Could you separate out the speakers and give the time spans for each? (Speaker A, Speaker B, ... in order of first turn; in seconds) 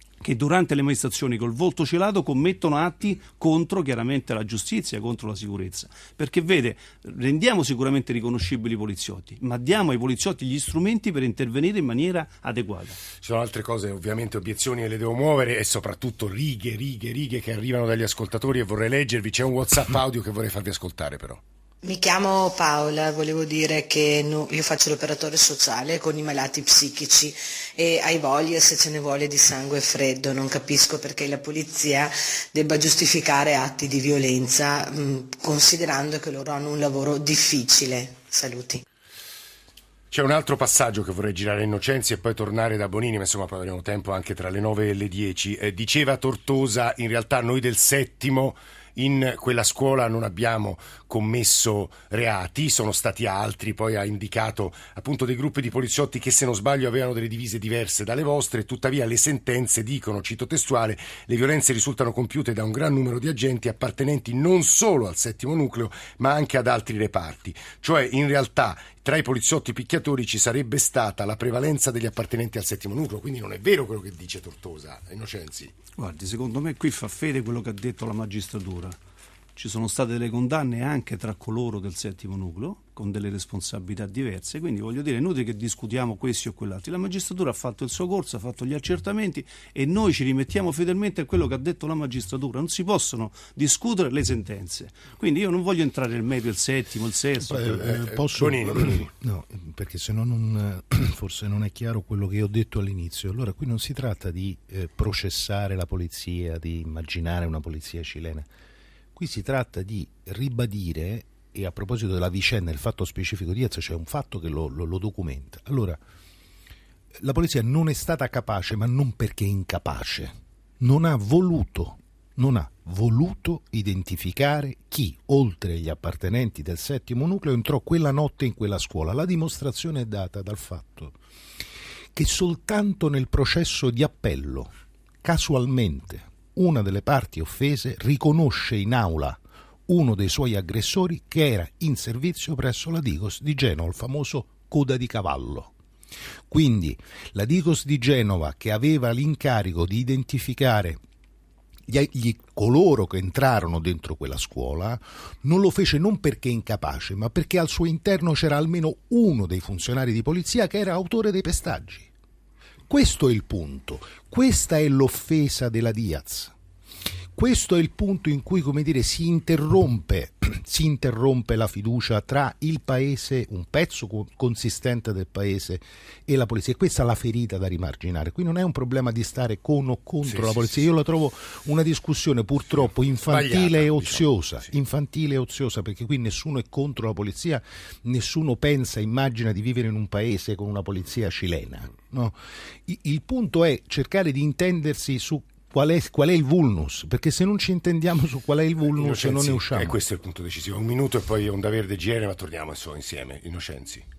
Speaker A: 0.2-13.0, 76.0-79.0, 79.6-97.8
Speaker B: 13.2-21.4, 40.1-75.7, 97.8-99.1, 180.2-180.9, 183.3-184.7, 199.0-204.1
Speaker C: 21.8-38.8
Speaker D: 97.4-108.5, 109.2-116.0, 117.2-131.2, 132.2-134.7, 135.2-145.7, 146.5-151.0, 151.9-162.1, 162.9-166.5, 167.3-200.0